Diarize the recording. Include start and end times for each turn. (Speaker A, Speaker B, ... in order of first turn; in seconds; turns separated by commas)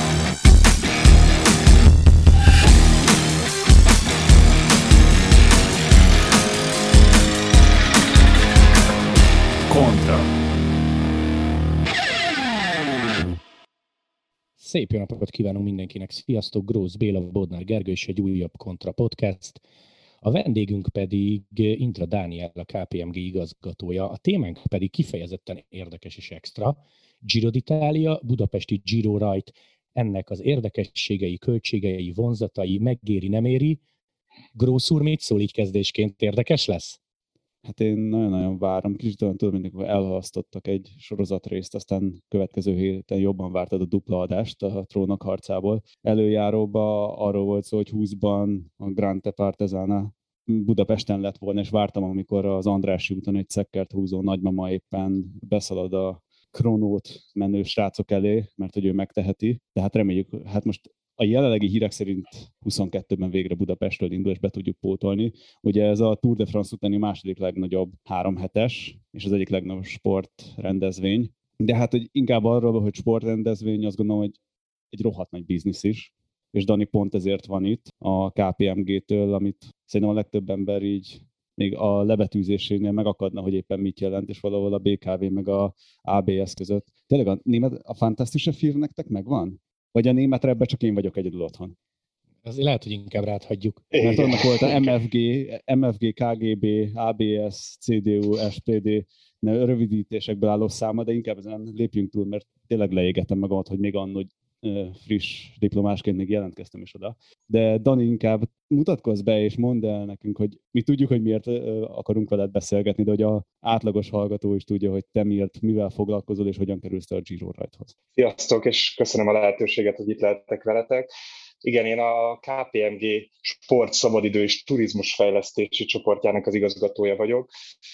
Speaker A: 9.7-10.3, Speaker B: 14.6-19.6, Speaker B: 20.2-33.8, Speaker B: 34.5-37.0, Speaker A: 37.6-74.4, Speaker A: 74.9-91.8, Speaker B: 92.5-93.9, Speaker C: 93.9-94.9, Speaker A: 94.0-117.9, Speaker C: 118.2-121.1, Speaker C: 121.6-127.5